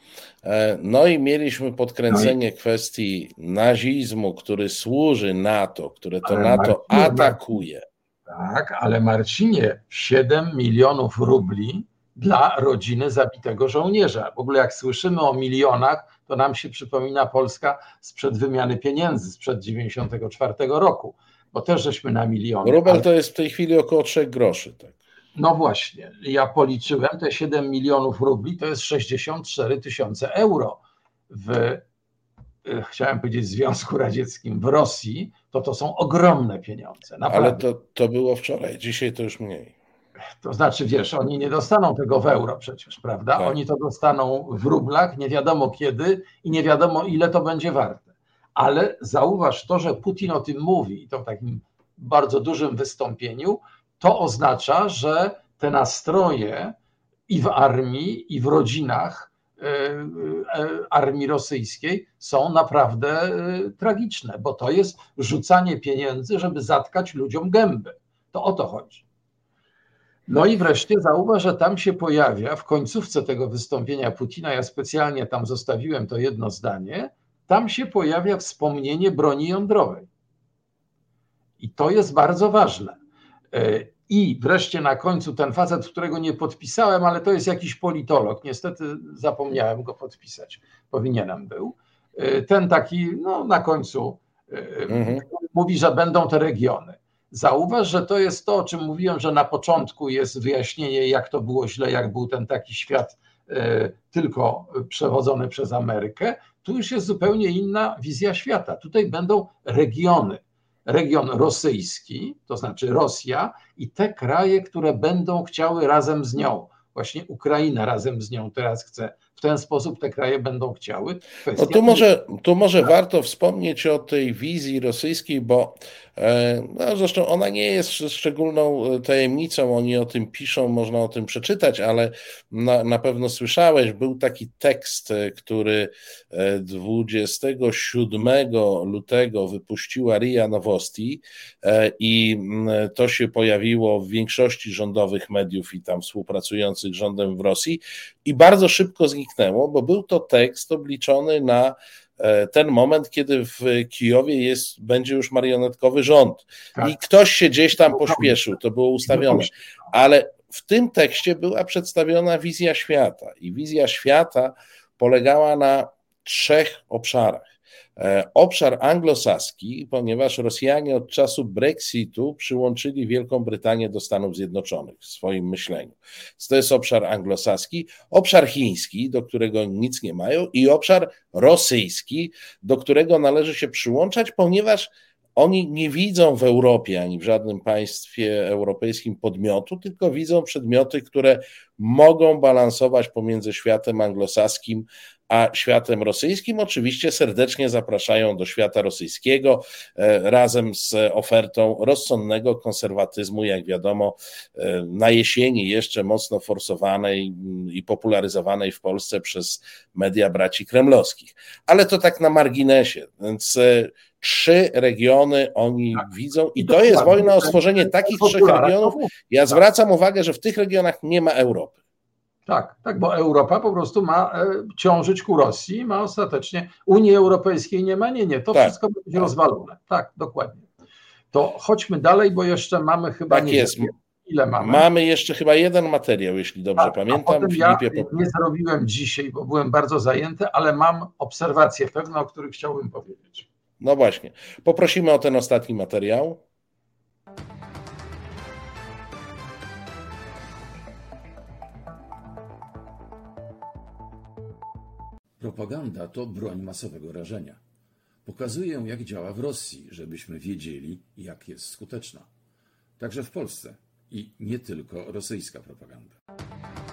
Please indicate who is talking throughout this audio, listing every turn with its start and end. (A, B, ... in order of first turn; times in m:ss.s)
0:00.4-0:07.8 A
0:02.1-0:02.3 B
0:06.2-0:07.4 B
0:08.3-0:23.1 B
0:22.6-0:25.0 A
0:25.4-0:30.8 B
0:31.3-0:31.8 B
0:32.7-0:37.6 B
0:37.3-0:39.8 A
0:40.4-0:56.8 B
0:57.3-1:09.0 B
1:10.3-1:20.1 B
1:21.6-1:23.0 B
1:23.5-2:02.1 B
1:34.9-1:35.2 A
2:01.6-3:41.8 A
2:37.8-2:38.4 B
2:39.1-2:39.5 B
3:36.6-3:39.6 B
3:42.5-3:50.7 B
3:48.5-3:49.3 A
3:51.3-3:54.9 B
3:53.3-3:53.9 A
3:54.6-3:58.1 A
3:56.8-4:03.5 B
4:03.8-4:06.4 A
4:15.4-4:17.6 C
4:18.2-4:22.3 C
4:23.0-4:26.2 C